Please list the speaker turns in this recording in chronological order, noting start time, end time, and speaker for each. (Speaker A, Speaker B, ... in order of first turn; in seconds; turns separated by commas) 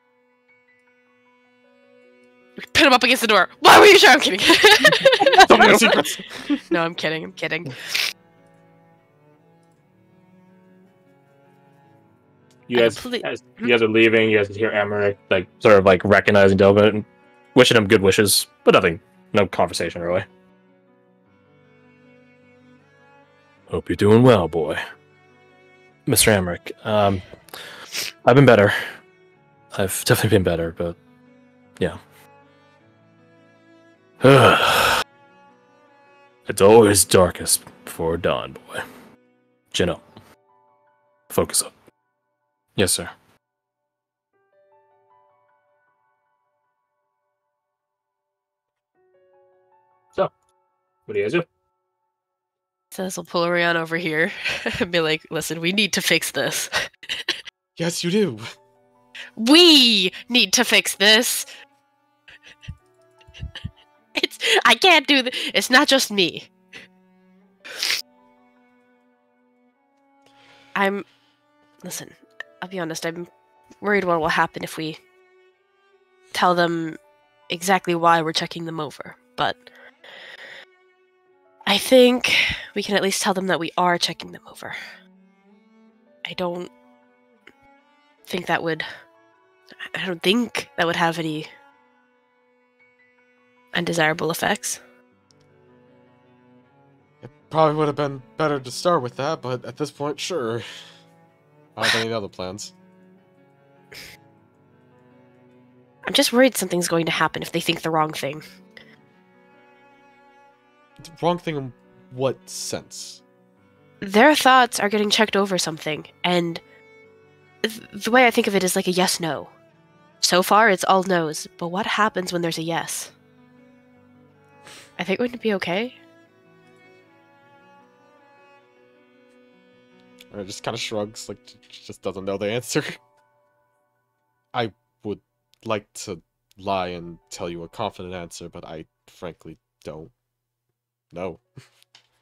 Speaker A: 2.7-6.1, Speaker B: 4.9-6.7, Speaker A: 6.7-8.1, Speaker C: 12.7-20.2, Speaker A: 12.7-13.7, Speaker C: 23.7-24.8, Speaker C: 26.1-27.2, Speaker C: 28.2-28.8, Speaker C: 29.7-31.0, Speaker C: 34.2-35.0, Speaker C: 36.5-38.8, Speaker C: 39.7-40.0, Speaker C: 41.3-41.7, Speaker C: 42.8-43.1, Speaker C: 51.1-51.4, Speaker A: 52.9-57.4, Speaker B: 57.8-58.5, Speaker A: 59.4-61.5, Speaker A: 64.1-66.5, Speaker A: 70.7-71.0, Speaker A: 71.8-73.3, Speaker A: 73.8-75.0, Speaker A: 76.3-77.0, Speaker A: 77.5-79.6, Speaker A: 81.7-84.8, Speaker A: 86.2-86.7, Speaker A: 88.3-88.9, Speaker A: 89.8-91.5, Speaker A: 93.7-94.8, Speaker B: 97.2-100.6, Speaker B: 101.8-102.7, Speaker A: 106.0-108.4, Speaker B: 111.0-113.2, Speaker A: 114.0-116.6, Speaker A: 117.6-119.5, Speaker A: 120.2-123.1, Speaker A: 125.0-126.0, Speaker B: 130.3-133.0, Speaker B: 134.5-140.1, Speaker B: 141.1-141.4